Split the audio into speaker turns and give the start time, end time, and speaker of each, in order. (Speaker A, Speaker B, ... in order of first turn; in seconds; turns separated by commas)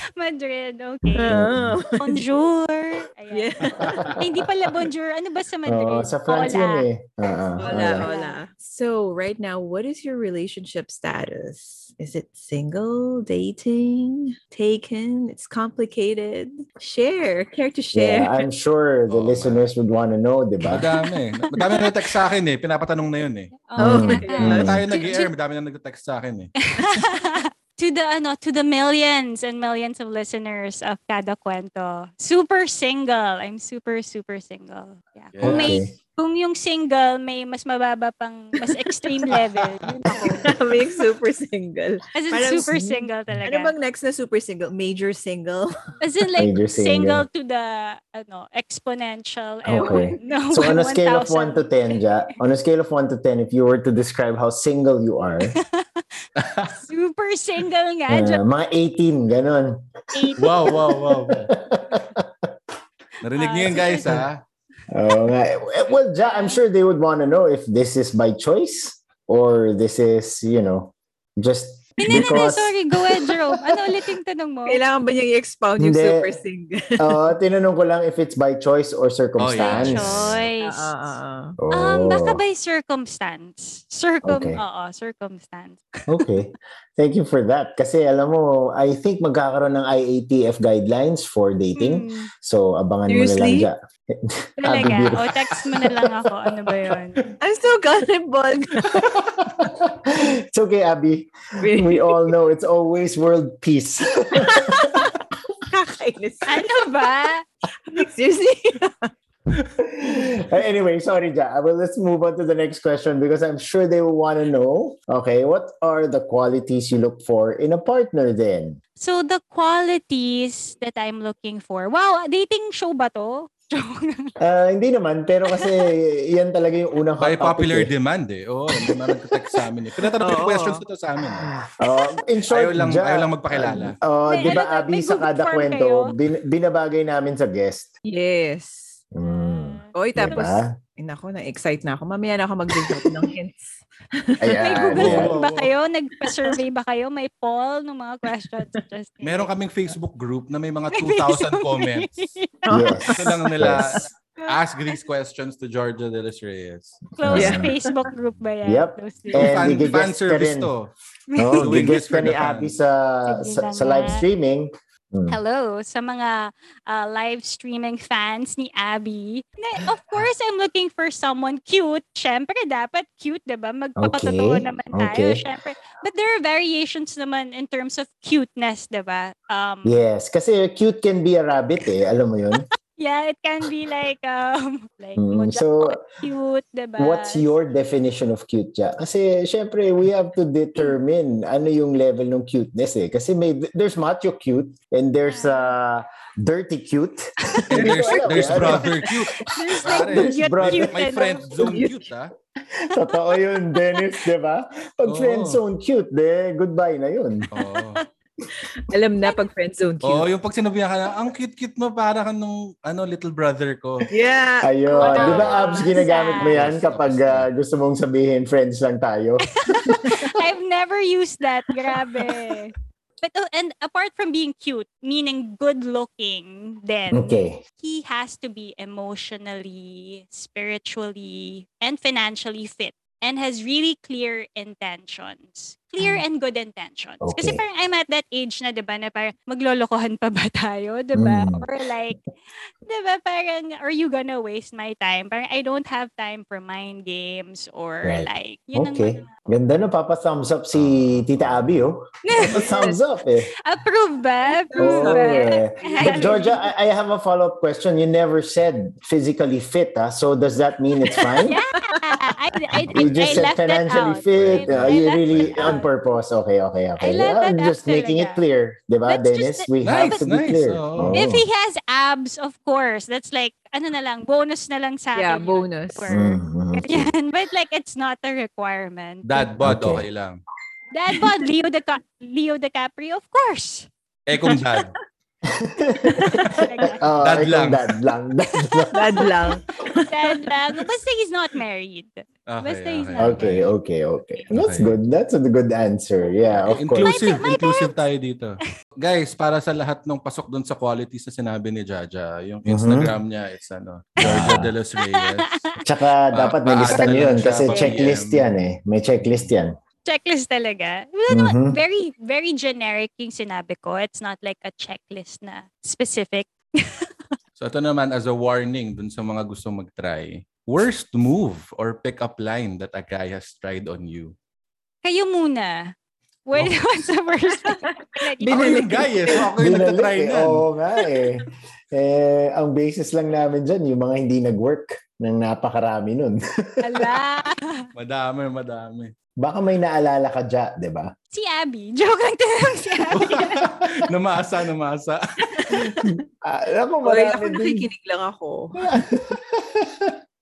Speaker A: 0.1-1.4, Speaker B: 1.1-2.3, Speaker C: 1.3-1.8, Speaker A: 2.0-3.5, Speaker B: 3.3-4.2, Speaker D: 3.8-4.2, Speaker A: 4.2-6.9, Speaker C: 5.7-8.1, Speaker B: 7.6-18.4, Speaker A: 7.7-8.4, Speaker C: 17.9-20.9, Speaker D: 19.1-19.6, Speaker D: 20.6-23.6, Speaker A: 21.4-22.1, Speaker A: 23.6-25.3, Speaker C: 23.8-24.8, Speaker B: 23.8-24.8, Speaker D: 24.4-26.5, Speaker A: 26.6-40.5, Speaker D: 35.3-35.8, Speaker C: 35.4-35.9, Speaker B: 40.1-45.7, Speaker A: 42.1-43.7, Speaker A: 46.0-52.3, Speaker C: 46.4-47.2, Speaker C: 49.6-55.6, Speaker B: 49.8-50.2, Speaker A: 55.5-56.0, Speaker D: 56.4-56.7, Speaker A: 56.6-58.4, Speaker C: 58.1-62.5, Speaker A: 60.1-60.5, Speaker D: 60.4-61.5, Speaker D: 63.2-64.4, Speaker A: 63.3-64.2, Speaker C: 64.9-73.8, Speaker A: 66.2-66.6, Speaker A: 72.0-74.8, Speaker B: 72.1-72.4, Speaker B: 74.7-77.3, Speaker C: 75.8-76.3, Speaker C: 77.0-80.3, Speaker D: 79.4-80.5, Speaker A: 79.5-81.0, Speaker B: 80.6-81.6, Speaker C: 81.6-82.4, Speaker A: 81.7-85.9, Speaker C: 84.2-84.6, Speaker C: 86.1-96.2, Speaker A: 91.7-92.3, Speaker B: 93.1-93.7, Speaker A: 94.6-97.2, Speaker B: 97.4-99.1, Speaker C: 98.9-105.1, Speaker B: 101.6-102.3, Speaker B: 104.3-106.7, Speaker A: 106.5-107.4, Speaker B: 107.9-109.1, Speaker C: 109.8-118.8, Speaker A: 119.0-124.3, Speaker C: 124.4-127.9, Speaker A: 125.5-125.8, Speaker D: 127.2-131.5, Speaker C: 128.8-129.6, Speaker B: 130.2-130.8, Speaker C: 131.3-137.9, Speaker D: 132.5-134.0, Speaker A: 134.2-136.1, Speaker B: 138.0-139.1, Speaker C: 139.1-140.7, Speaker A: 139.2-140.5, Speaker B: 139.9-145.2, Speaker C: 144.4-145.3, Speaker A: 144.6-149.5, Speaker D: 144.9-145.7, Speaker B: 146.3-146.6, Speaker D: 149.2-152.3, Speaker A: 150.9-152.7, Speaker B: 152.7-155.0, Speaker C: 152.7-154.0, Speaker D: 153.2-157.1, Speaker A: 157.2-159.6, Speaker C: 157.2-157.7, Speaker B: 157.3-157.7, Speaker C: 158.6-160.7, Speaker D: 159.3-160.9, Speaker A: 161.3-161.6, Speaker C: 161.4-165.4, Speaker D: 161.6-162.8, Speaker A: 163.3-164.2, Speaker A: 165.3-180.0, Speaker C: 174.0-175.4, Speaker C: 179.8-182.6, Speaker A: 182.6-187.5, Speaker C: 185.2-186.0, Speaker C: 187.0-199.2, Speaker A: 195.3-195.8, Speaker D: 197.7-202.3, Speaker B: 197.8-199.8, Speaker A: 199.6-201.5, Speaker C: 199.8-201.1, Speaker B: 201.6-202.0, Speaker C: 202.7-207.5, Speaker D: 205.1-205.6, Speaker D: 207.5-208.0, Speaker B: 207.6-210.3, Speaker D: 210.0-214.1, Speaker B: 214.1-216.5, Speaker C: 214.6-220.2, Speaker A: 215.0-216.6, Speaker D: 215.2-215.6, Speaker D: 216.5-217.5, Speaker A: 219.6-242.2, Speaker C: 227.1-227.6, Speaker C: 237.2-237.6, Speaker C: 241.2-241.7, Speaker A: 242.8-249.3, Speaker C: 248.0-253.5, Speaker A: 252.2-253.0, Speaker A: 253.6-256.6, Speaker B: 254.4-256.5, Speaker C: 254.8-261.6, Speaker B: 261.1-261.3, Speaker A: 261.4-265.9, Speaker B: 261.9-262.2, Speaker C: 262.8-271.4, Speaker D: 262.9-263.5, Speaker D: 264.3-265.8, Speaker A: 267.0-268.4, Speaker A: 269.1-270.2, Speaker D: 269.8-271.2, Speaker A: 271.1-279.5, Speaker B: 275.1-276.1, Speaker C: 276.1-277.1, Speaker D: 279.2-280.4, Speaker C: 279.6-280.0, Speaker A: 280.9-283.9, Speaker D: 284.3-285.0, Speaker B: 284.4-284.9, Speaker C: 285.4-289.3, Speaker B: 286.1-286.7, Speaker A: 286.6-287.0, Speaker D: 287.2-287.9, Speaker A: 288.6-288.9, Speaker B: 288.9-290.4, Speaker A: 290.1-293.4, Speaker D: 292.5-293.7, Speaker C: 293.2-297.1, Speaker D: 294.5-295.0, Speaker D: 296.5-305.8, Speaker A: 296.9-297.9, Speaker C: 302.6-303.1, Speaker C: 304.2-304.7, Speaker A: 304.2-305.4, Speaker C: 305.8-309.7, Speaker D: 306.3-308.4, Speaker A: 307.6-308.1, Speaker D: 309.2-309.5, Speaker A: 310.0-317.1, Speaker C: 311.3-311.8, Speaker D: 317.6-324.3, Speaker A: 325.0-325.9, Speaker A: 326.4-329.0, Speaker B: 327.5-329.5, Speaker D: 328.5-330.6, Speaker C: 329.6-337.1, Speaker A: 336.8-337.9, Speaker D: 337.9-339.1, Speaker C: 339.4-341.1, Speaker A: 341.3-343.7, Speaker D: 343.1-345.9, Speaker B: 345.5-346.1, Speaker C: 346.0-347.9, Speaker B: 347.0-349.1, Speaker C: 348.8-350.1